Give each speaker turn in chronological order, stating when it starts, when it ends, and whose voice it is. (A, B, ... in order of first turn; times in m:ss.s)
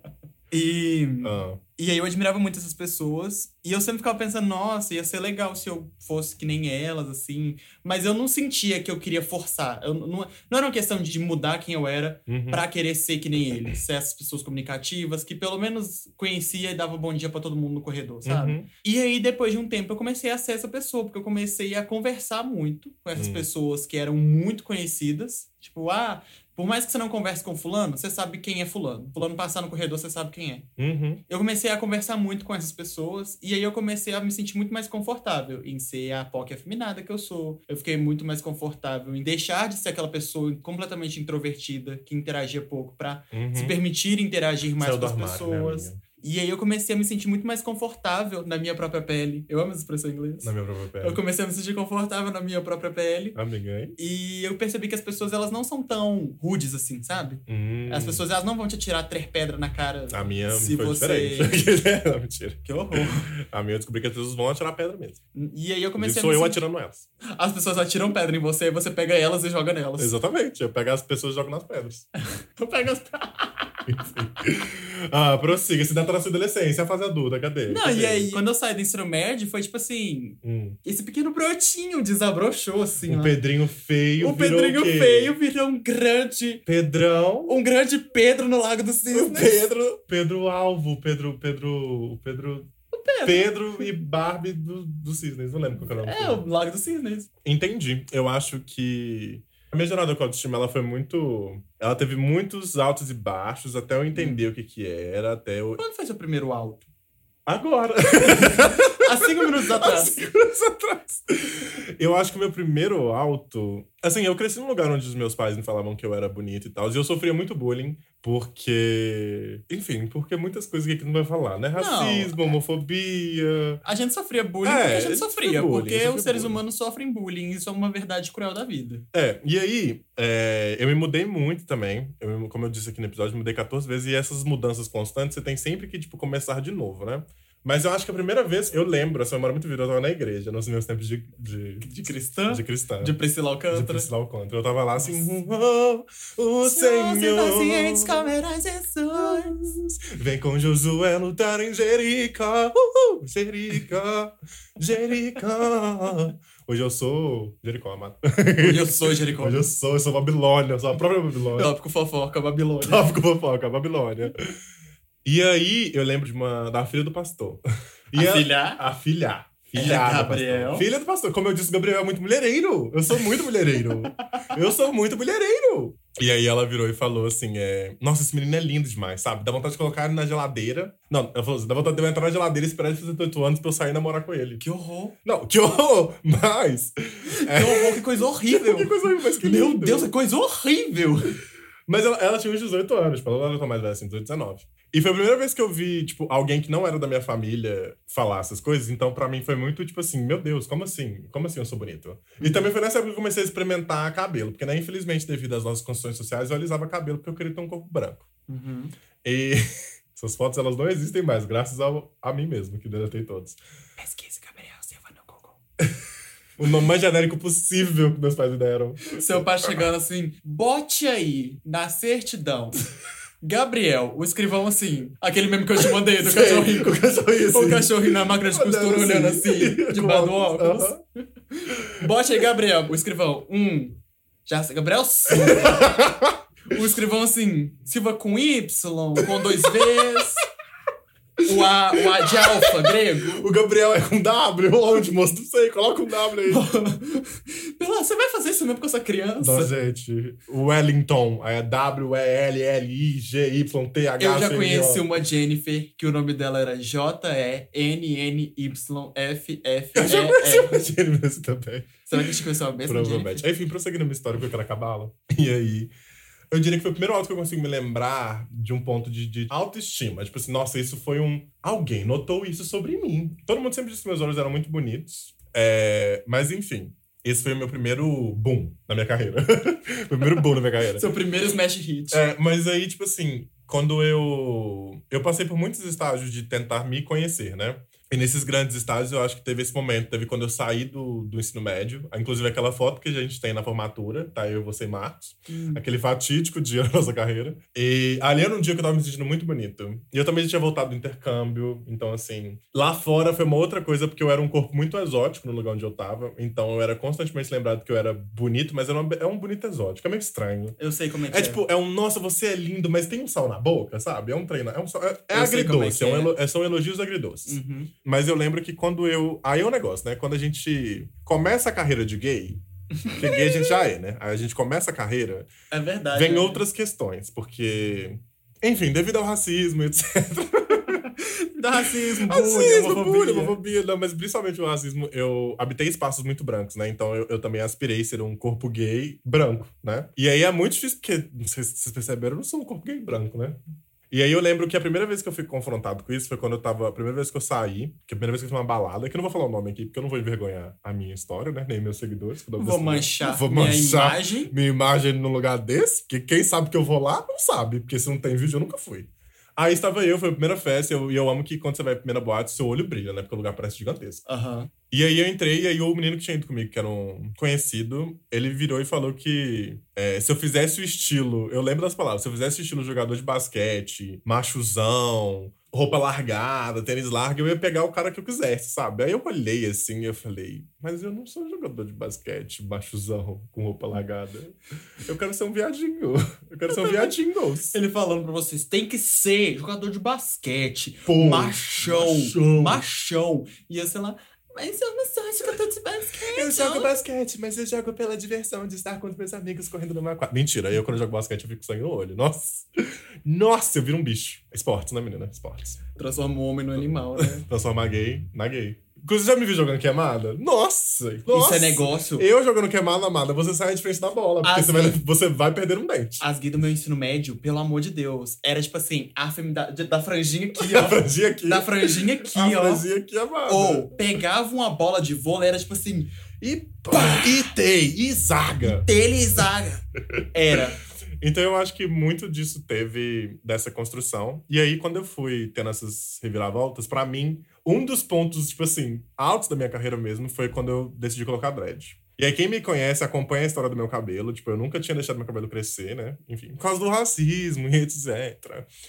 0:00.5-0:30.7 A
0:01.2-0:01.6 B
0:12.3-0:12.6 B
0:18.2-0:18.7 B
0:23.2-0:23.5 B
0:30.8-0:31.2 B
0:31.3-0:53.4 A
0:43.3-0:43.8 B
0:44.8-0:46.0 B
0:50.4-0:51.2 B
0:53.4-0:54.0 B
0:54.0-1:01.6 A
0:57.5-0:58.2 B
1:00.1-1:05.2 B
1:02.6-1:03.3 A
1:05.4-1:06.6 A
1:06.0-1:07.1 B
1:07.3-1:10.1 A
1:10.0-1:12.1 B
1:12.2-1:13.8 A
1:13.9-1:18.4 B
1:17.7-1:23.4 A
1:20.4-1:20.8 B
1:23.1-1:25.3 B
1:24.2-1:26.6 A
1:26.7-1:27.6 B
1:27.5-1:29.6 A
1:29.1-1:32.7 B
1:32.9-1:34.0 A
1:33.2-1:36.4 B
1:36.0-1:37.3 A
1:37.4-1:45.8 B
1:44.1-1:44.4 A
1:45.8-1:46.9 A
1:47.5-2:03.8 B
1:48.3-1:50.1 A
2:01.8-2:02.5 A
2:03.8-2:09.0 A
2:04.6-2:06.6 B
2:09.1-2:21.9 B
2:21.8-2:24.1 A
2:22.5-2:23.2 B
2:23.7-2:28.3 B
2:25.0-2:25.3 A
2:26.6-2:29.6 A
2:29.2-2:41.7 B
2:38.6-2:39.6 A
2:41.6-2:43.1 A
2:42.8-2:44.3 B
2:45.2-3:04.6 B
2:48.1-2:48.8 A
2:49.8-2:50.9 A
3:04.6-3:05.2 A
3:05.2-3:10.1 B
3:07.3-3:11.4 A
3:11.9-3:28.3 B
3:22.4-3:22.7 A
3:28.5-3:28.9 A
3:29.2-3:29.6 B
3:30.2-3:33.6 B
3:34.0-3:35.6 A
3:36.6-3:39.8 B
3:39.1-3:42.8 A
3:43.4-3:47.0 A
3:45.8-3:51.0 B
3:47.5-3:50.9 A
3:51.7-3:52.1 B
3:51.9-3:55.9 A
3:55.3-3:56.4 B
3:56.7-4:00.4 A
3:59.2-4:00.2 B
4:01.4-4:06.6 B
4:01.4-4:03.4 A
4:06.5-4:09.7 A
4:09.4-4:15.1 B
4:14.2-4:20.9 A
4:20.0-4:25.9 B
4:22.1-4:23.4 A
4:26.5-4:41.0 B
4:40.9-4:42.2 A
4:42.1-5:10.8 B
4:55.5-4:55.8 A
5:10.8-5:11.6 A
5:11.3-5:25.5 B
5:15.3-5:16.3 A
5:17.5-5:17.9 A
5:23.0-5:23.8 A
5:25.7-5:26.6 A
5:26.1-5:31.1 B
5:30.9-5:33.6 A
5:32.2-5:43.6 B
5:44.1-6:04.2 B
5:52.6-5:54.5 A
6:04.3-6:04.7 A
6:04.9-6:27.8 B
6:26.7-6:27.1 A
6:27.7-6:37.0 A
6:31.1-6:32.8 B
6:36.3-6:45.8 B
6:46.0-6:47.4 A
6:47.2-6:56.2 B
6:51.3-6:52.3 A
6:54.4-6:55.0 A
6:56.2-7:02.9 A
7:00.6-7:04.0 B
7:03.5-7:06.1 A
7:06.4-7:08.9 B
7:06.9-7:07.5 A
7:08.6-7:09.8 A
7:10.1-7:10.6 B
7:10.3-7:10.8 A
7:11.2-7:28.7 B